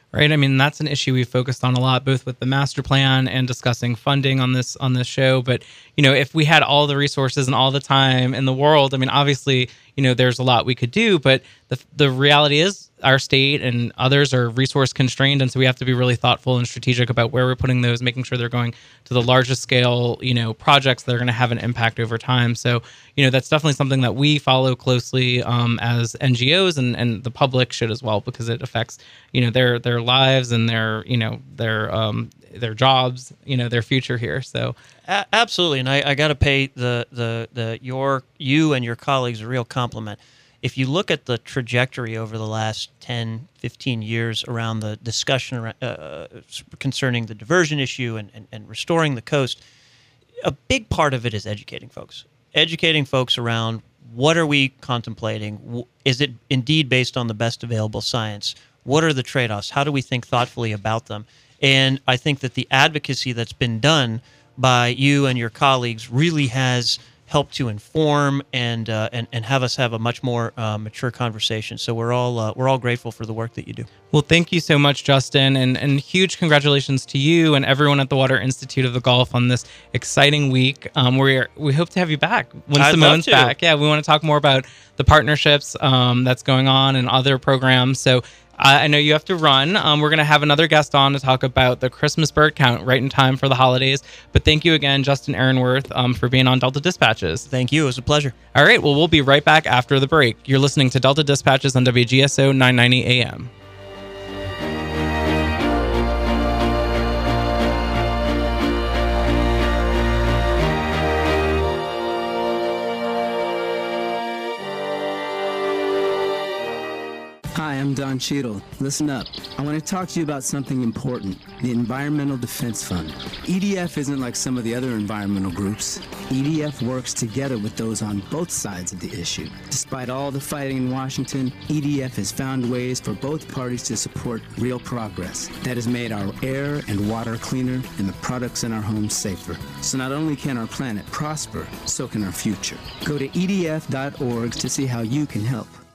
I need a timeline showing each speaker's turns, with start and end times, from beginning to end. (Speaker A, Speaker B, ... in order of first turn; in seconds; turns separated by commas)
Speaker A: 0.1-34.8, Speaker B: 35.1-49.6, Speaker B: 50.4-73.9, Speaker A: 74.1-97.5, Speaker B: 82.8-83.5, Speaker B: 97.5-98.3, Speaker A: 98.5-103.5, Speaker C: 117.5-145.8